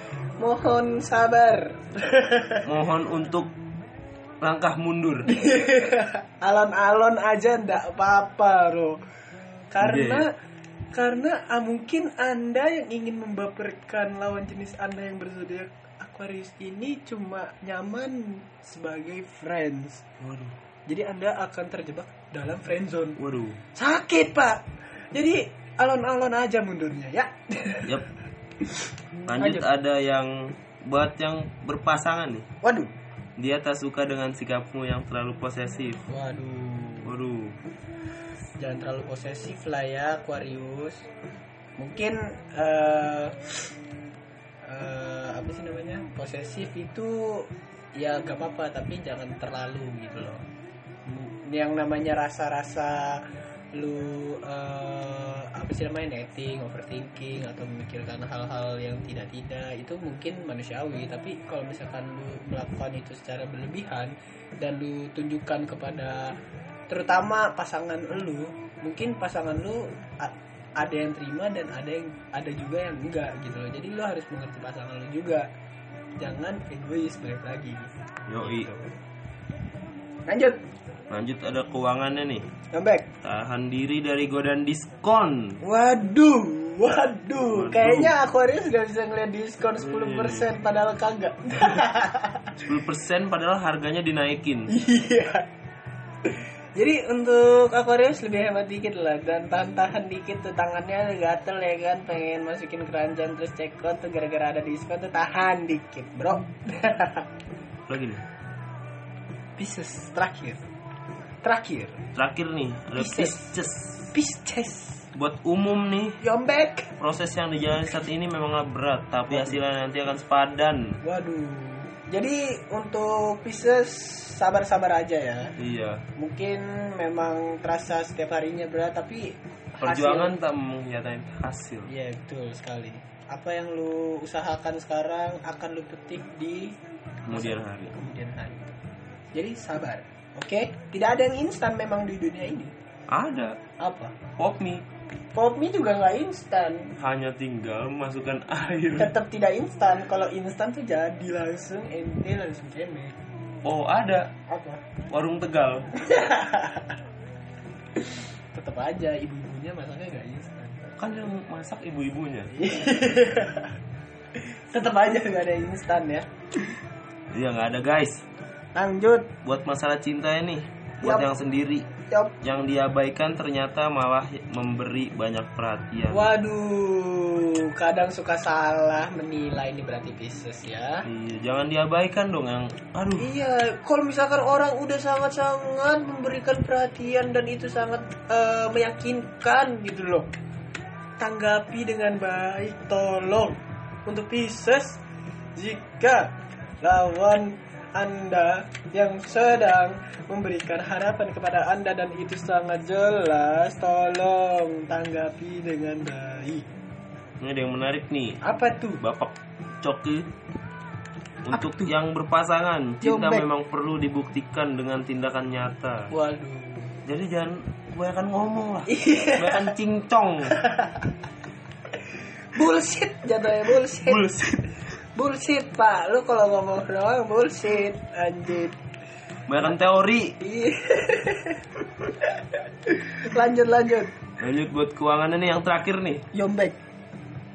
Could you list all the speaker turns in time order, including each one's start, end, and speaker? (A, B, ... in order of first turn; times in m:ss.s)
0:00.4-0:02.6 A
0:02.6-0:03.5 B
0:04.4-0:05.3 B
0:05.3-0:09.0 A
0:09.7-0:10.3 A
0:09.8-0:10.2 B
0:11.0-0:20.0 A
0:20.2-0:20.6 B
0:20.9-0:23.2 A
0:23.2-0:23.6 B
0:23.8-0:28.0 A
0:28.6-0:29.6 A
0:29.3-0:32.5 B
0:32.6-0:32.9 A
0:33.4-0:36.0 B
0:36.1-0:37.1 A
0:37.0-0:37.6 B
0:38.6-0:41.1 A
0:41.8-0:43.6 A
0:44.6-0:50.4 A
0:51.1-1:06.3 A
1:06.9-1:15.5 A
1:16.2-1:18.9 A
1:18.3-1:18.7 B
1:20.3-1:20.6 A
1:21.1-1:22.5 B
1:22.7-1:23.1 A
1:23.2-1:25.6 B
1:25.6-1:32.6 A
1:27.4-1:28.2 B
1:29.8-1:30.5 B
1:32.6-1:34.7 B
1:34.7-1:35.5 A
1:36.2-1:47.3 A
1:47.9-1:48.2 B
1:49.6-1:50.6 A
1:51.4-1:52.0 A
1:52.2-1:54.1 B
1:52.9-1:53.6 A
1:54.1-1:55.1 A
1:55.2-1:56.2 B
1:56.2-1:57.0 A
1:57.0-2:01.0 B
1:59.3-1:59.6 A
2:01.0-2:05.5 A
2:05.6-2:06.0 B
2:06.2-2:10.3 A
2:09.8-2:11.9 B
2:11.9-2:16.8 A
2:17.3-2:17.9 B
2:17.3-2:18.8 A
2:19.4-2:22.7 A
2:23.1-2:23.6 B
2:23.8-2:24.2 A
2:24.4-2:24.9 B
2:25.4-2:26.9 A
2:27.0-2:29.1 B
2:29.0-2:33.2 A
2:33.6-2:34.3 B
2:34.5-2:34.8 A
2:35.1-2:35.9 B
2:36.0-2:37.0 A
2:38.0-2:40.9 A
2:41.0-2:42.5 B
2:42.5-2:43.7 A
2:44.4-2:46.3 A
2:47.3-2:48.2 B
2:48.8-2:49.3 A
2:49.4-2:51.9 B
2:51.0-2:51.3 A
2:52.1-2:52.4 A
2:52.4-2:56.3 B
2:56.1-3:01.1 A
3:01.1-3:03.3 B
3:03.2-3:10.3 A
3:11.2-3:15.0 A
3:15.6-3:26.7 A
3:27.4-3:28.4 B
3:28.4-3:29.0 A
3:29.0-3:30.2 B
3:31.4-3:36.1 B
3:31.5-3:31.9 A
3:33.0-3:33.5 A
3:36.1-3:37.0 A
3:37.0-3:40.6 B
3:38.9-3:39.7 A
3:40.5-3:41.1 A
3:42.5-3:44.3 A
3:43.7-3:44.7 B
3:45.2-3:48.8 A
3:49.5-3:50.4 B
3:50.4-3:54.1 A
3:54.4-3:56.2 B
3:56.3-3:56.8 A